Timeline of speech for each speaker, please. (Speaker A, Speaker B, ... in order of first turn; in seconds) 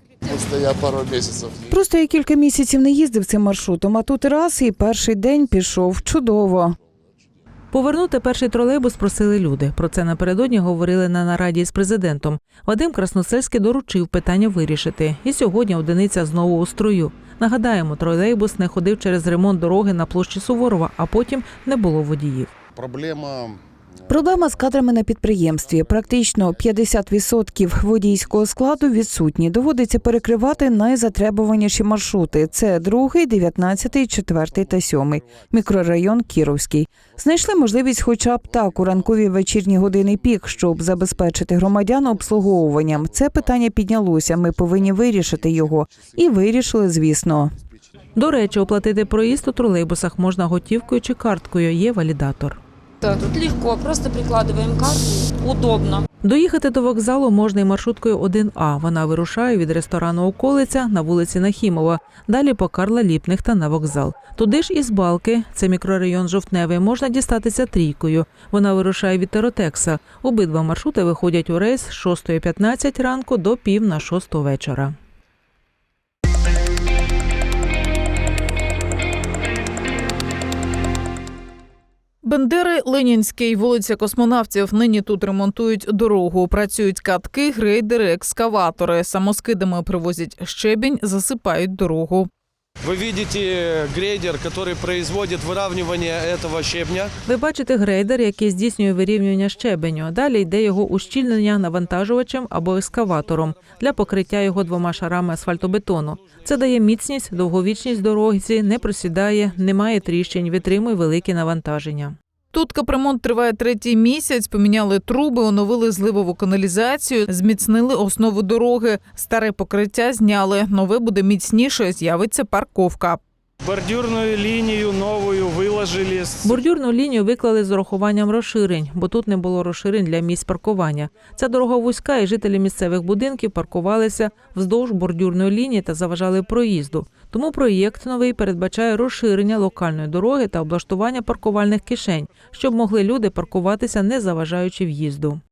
Speaker A: 0.4-1.6, 22.8-23.6
Speaker B: 1.7-6.8, 24.1-47.5
Speaker C: 7.7-22.5, 48.1-52.6, 56.2-74.9, 97.2-112.2, 126.4-145.4
Speaker D: 53.0-56.0
Speaker E: 82.2-92.3, 112.5-123.2
Speaker F: 92.8-97.1
Speaker G: 123.6-126.4